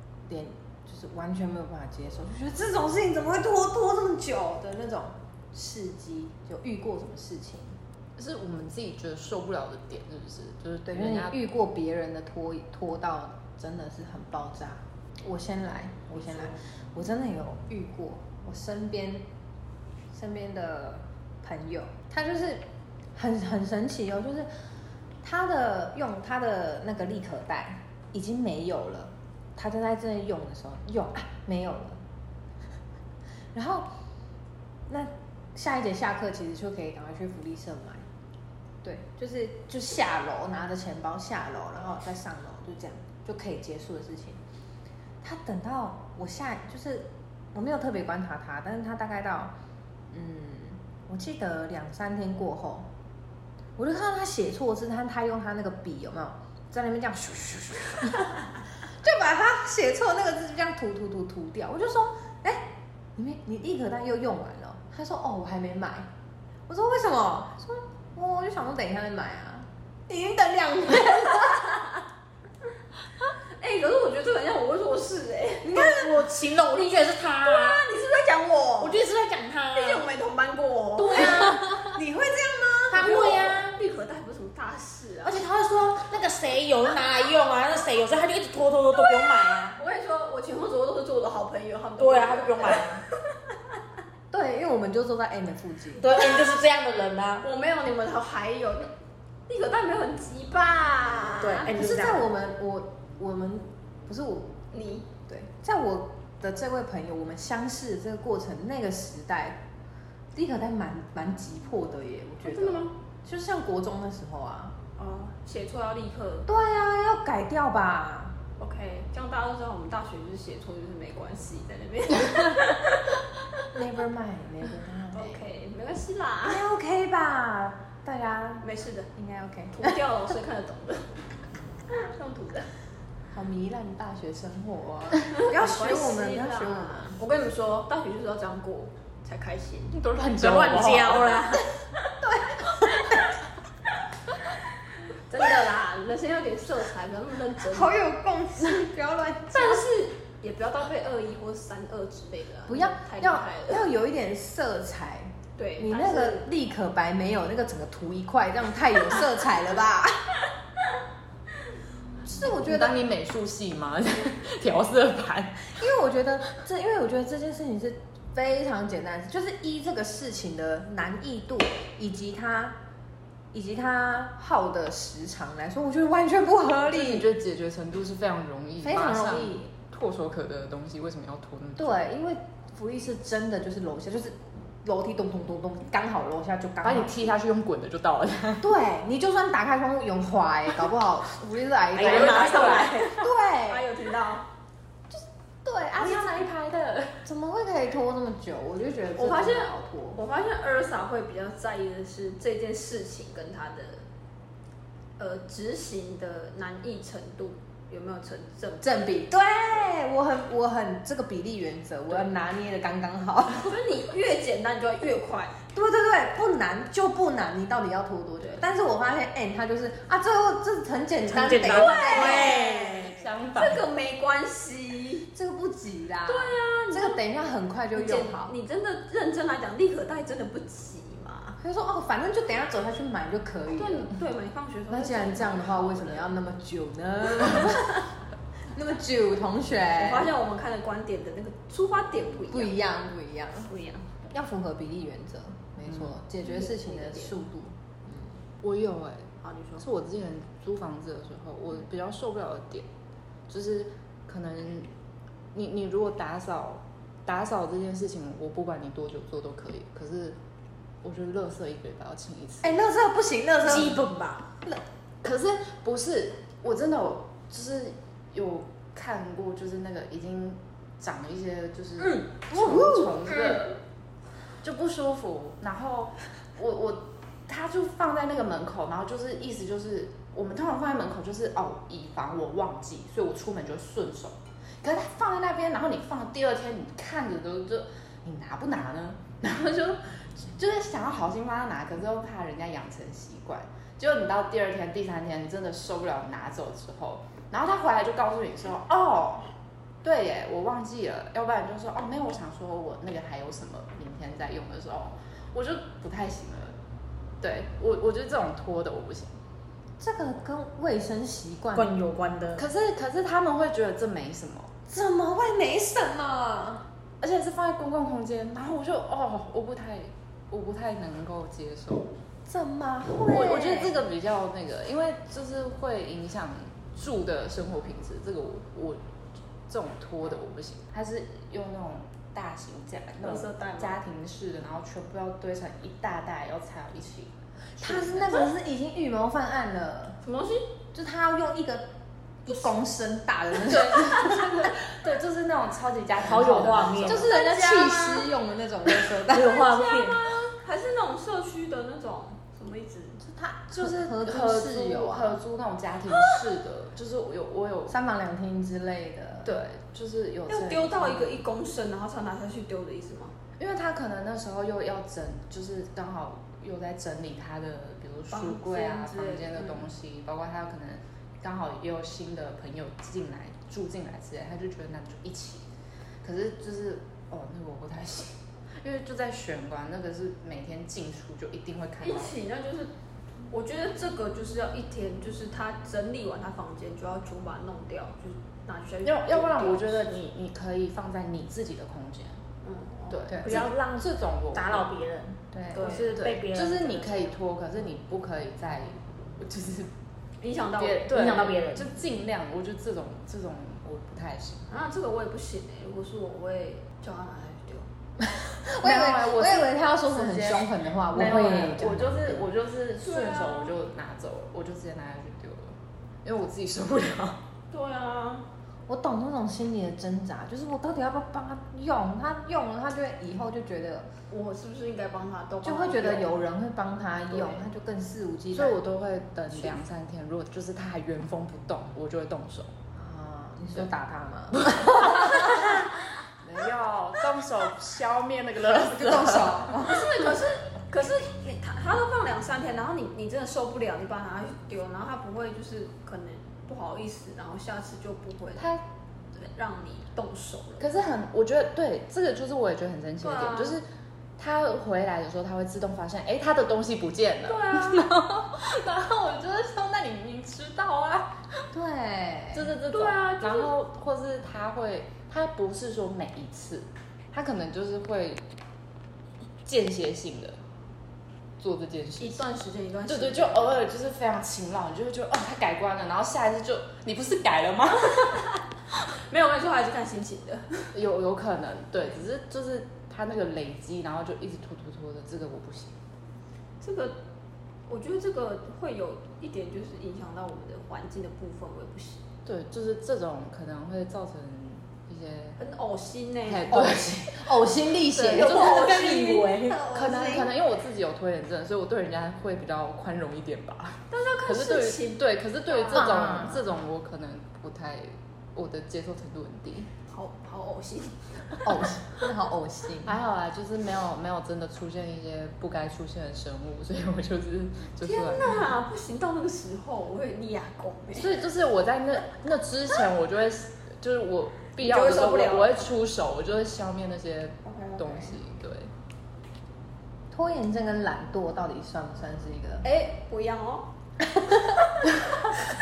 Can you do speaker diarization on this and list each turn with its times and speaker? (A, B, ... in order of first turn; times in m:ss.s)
0:00.2-0:07.7 A
0:08.2-0:11.4 B
0:10.9-0:19.3 A
0:20.1-0:24.5 A
0:25.2-0:32.0 A
0:33.5-0:33.9 A
0:34.9-0:38.0 A
0:38.8-0:44.4 A
0:45.2-0:49.5 A
0:50.1-0:52.9 A
0:53.8-1:06.1 A
1:06.7-1:11.8 A
1:11.2-1:11.6 C
1:13.5-1:16.0 C
1:15.7-1:16.2 A
1:15.7-1:17.8 D
1:17.4-1:19.0 C
1:18.8-1:20.1 D
1:19.7-1:21.5 C
1:21.0-1:21.9 D
1:21.1-1:23.2 A
1:22.9-1:23.7 D
1:22.9-1:25.4 C
1:25.2-1:29.8 D
1:29.7-1:32.9 C
1:32.0-1:33.0 D
1:34.3-1:36.2 A
1:36.0-1:37.4 D
1:36.2-1:36.5 C
1:37.4-1:38.9 C
1:39.5-1:41.7 C
1:41.4-1:42.2 D
1:41.7-1:44.6 A
1:44.7-1:45.1 C
1:45.3-1:49.6 A
1:50.3-1:54.8 A
1:52.4-1:52.9 C
1:55.0-1:56.5 C
1:56.5-1:58.4 A
1:58.6-2:03.2 C
2:03.7-2:05.4 A
2:05.1-2:06.6 C
2:06.4-2:10.0 A
2:08.6-2:09.1 C
2:09.7-2:11.1 C
2:11.9-2:12.7 C
2:13.3-2:17.2 A
2:15.3-2:19.9 C
2:19.9-2:21.5 B
2:20.4-2:21.7 D
2:22.2-2:23.2 A
2:25.3-2:28.0 C
2:27.6-2:29.8 A
2:29.5-2:33.9 C
2:32.7-2:40.3 A
2:35.6-2:36.5 C
2:42.2-2:43.0 A
2:42.4-2:45.8 B
2:45.8-2:52.8 A
2:53.5-2:57.3 A
2:56.9-3:02.1 B
2:58.8-2:59.7 A
3:01.8-3:07.3 A
3:06.8-3:08.7 B
3:08.6-3:13.9 A
3:11.9-3:13.1 D
3:12.0-3:13.0 B
3:12.0-3:14.5 C
3:15.1-3:16.5 A
3:15.9-3:17.2 B
3:17.2-3:20.2 A
3:19.2-3:24.0 C
3:25.2-3:29.0 C
3:28.8-3:33.8 A
3:33.6-3:35.6 C
3:35.7-3:42.6 A
3:41.2-3:43.2 D
3:41.5-3:43.0 C
3:42.0-3:43.8 B
3:43.5-3:45.3 C
3:45.3-3:48.5 A
3:46.3-3:47.2 C
3:47.9-3:51.6 C
3:51.6-3:54.1 A
3:53.8-3:56.3 C
3:54.9-3:58.0 A
3:58.7-4:00.3 A
4:00.0-4:02.8 C
4:02.4-4:03.7 A
4:03.6-4:04.1 C
4:04.3-4:08.3 A
4:06.4-4:07.3 C
4:08.6-4:12.9 B
4:09.4-4:09.8 C
4:13.5-4:14.9 B
4:15.5-4:20.4 B
4:21.0-4:22.8 B
4:22.6-4:24.0 A
4:23.6-4:24.4 D
4:25.2-4:33.8 B
4:32.5-4:33.3 A
4:34.6-4:59.4 B
5:00.0-5:06.7 B
5:07.4-5:09.4 B
5:10.0-5:11.9 A
5:11.7-5:12.6 D
5:12.6-5:14.7 B
5:14.9-5:16.8 A
5:17.2-5:22.1 B
5:22.5-5:24.0 A
5:23.3-5:29.0 B
5:29.7-5:38.5 B
5:33.2-5:33.9 C
5:37.8-5:40.2 A
5:40.2-5:40.6 C
5:40.9-5:41.9 A
5:42.4-5:44.7 A
5:43.6-5:47.3 B
5:46.2-5:47.3 D
5:47.0-5:49.7 A
5:47.2-5:48.3 C
5:49.3-5:50.3 D
5:49.6-5:53.2 C
5:53.2-5:55.4 A
5:53.8-5:58.0 B
5:57.9-5:59.6 A
5:59.4-6:01.4 B
6:00.5-6:03.3 C
6:03.6-6:15.6 B
6:08.3-6:09.8 C
6:16.2-6:22.4 B
6:22.0-6:22.9 C
6:23.5-6:30.2 C
6:29.0-6:32.4 B
6:32.6-6:33.2 C
6:33.1-6:34.9 B
6:33.3-6:33.6 A
6:33.4-6:37.3 D
6:35.5-6:35.9 A
6:35.7-6:36.2 C
6:35.7-6:39.9 B
6:40.4-6:41.1 C
6:40.8-6:44.7 B
6:41.1-6:41.9 D
6:44.7-6:47.8 C
6:48.2-6:52.4 A
6:48.8-6:57.4 B
6:53.0-6:53.7 C
6:57.7-6:58.4 C
6:58.9-7:04.1 A
7:04.3-7:06.3 C
7:05.6-7:08.8 A
7:08.5-7:12.7 B
7:12.9-7:15.8 A
7:14.5-7:15.9 B
7:16.4-7:19.8 B
7:18.8-7:20.3 A
7:19.8-7:28.7 C
7:28.6-7:28.8 B
7:29.3-7:30.9 C
7:30.8-7:33.8 B
7:33.2-7:33.8 C
7:34.4-7:41.6 B
7:37.4-7:38.1 C
7:41.7-7:42.7 A
7:42.5-7:48.4 B
7:42.9-7:43.7 C
7:49.6-7:50.6 B
7:51.6-7:52.4 B
7:52.2-7:53.8 C
7:53.1-7:58.4 B
7:59.2-8:00.9 C
8:00.9-8:05.9 B
8:06.8-8:07.2 C
8:07.9-8:12.2 C
8:12.4-8:15.6 B
8:15.6-8:16.9 C
8:16.4-8:17.6 B
8:16.7-8:20.5 A
8:18.1-8:19.5 C
8:18.3-8:19.9 D
8:19.9-8:29.9 B
8:24.1-8:26.2 C
8:25.9-8:26.6 A
8:30.1-8:31.6 C
8:31.6-8:33.2 A
8:33.0-8:38.7 B
8:38.0-8:41.3 C
8:41.1-8:48.9 B
8:44.8-8:45.9 C
8:47.6-8:48.4 C
8:50.3-8:52.8 A
8:52.8-8:53.9 C
8:54.3-8:54.8 A